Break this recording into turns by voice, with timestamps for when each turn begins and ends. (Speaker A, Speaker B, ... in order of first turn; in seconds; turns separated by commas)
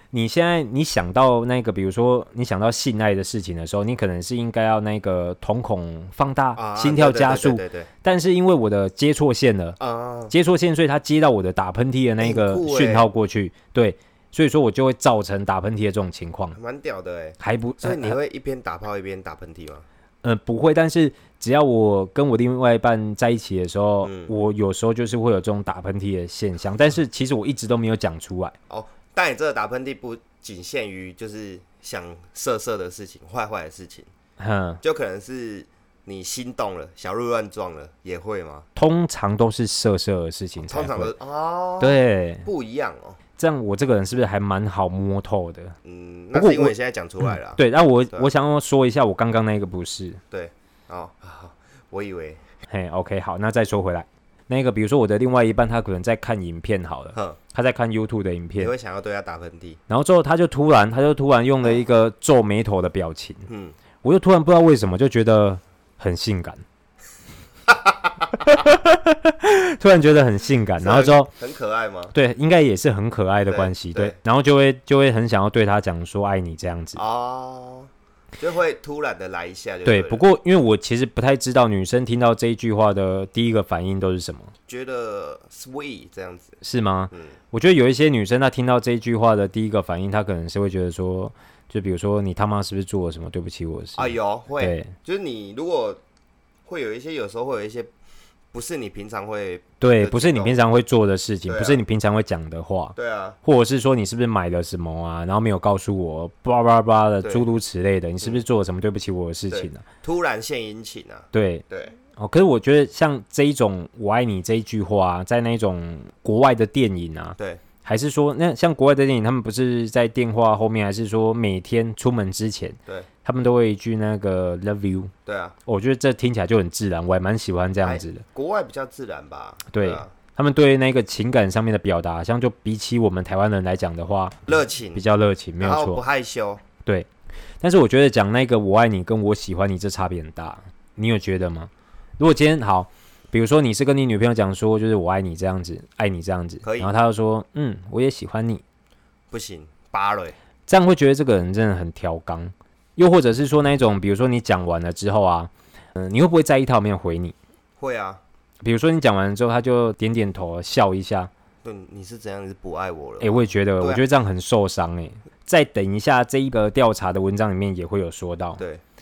Speaker A: 0.1-9.8, Speaker B: 6.6-7.9, Speaker B: 9.8-10.3, Speaker A: 10.3-16.6, Speaker B: 12.2-13.1, Speaker B: 16.5-19.9, Speaker A: 17.4-18.2, Speaker A: 20.2-28.6, Speaker B: 24.0-24.3, Speaker B: 28.7-34.1, Speaker A: 34.4-34.8, Speaker B: 34.8-38.7, Speaker A: 38.8-41.1, Speaker B: 40.6-43.2, Speaker A: 41.8-42.5, Speaker A: 43.4-45.8, Speaker B: 45.8-47.6, Speaker A: 46.3-50.2, Speaker B: 50.3-52.4, Speaker A: 52.7-58.7, Speaker B: 58.6-59.8, Speaker A: 59.9-63.5, Speaker B: 63.5-63.8, Speaker A: 64.0-66.6, Speaker B: 67.7-68.5, Speaker A: 68.4-71.3, Speaker B: 70.8-72.1, Speaker A: 72.1-77.0, Speaker B: 73.5-74.2, Speaker B: 77.0-80.2, Speaker A: 79.8-84.5, Speaker B: 84.7-86.6, Speaker A: 86.6-94.9, Speaker B: 94.0-96.0, Speaker B: 96.7-97.9, Speaker B: 98.5-100.6, Speaker A: 99.8-109.8, Speaker B: 101.5-101.8, Speaker B: 103.0-103.4, Speaker B: 109.5-112.0, Speaker A: 111.3-125.1, Speaker B: 117.4-117.6, Speaker B: 125.3-125.5, Speaker A: 125.7-128.2, Speaker B: 127.8-130.1, Speaker A: 129.7-136.0, Speaker B: 134.5-135.0, Speaker B: 135.6-136.6, Speaker A: 137.6-148.6, Speaker B: 146.6-146.9, Speaker B: 149.3-150.4, Speaker A: 150.7-157.3, Speaker B: 157.8-158.2, Speaker A: 158.6-161.3, Speaker B: 161.6-164.0, Speaker A: 163.2-168.6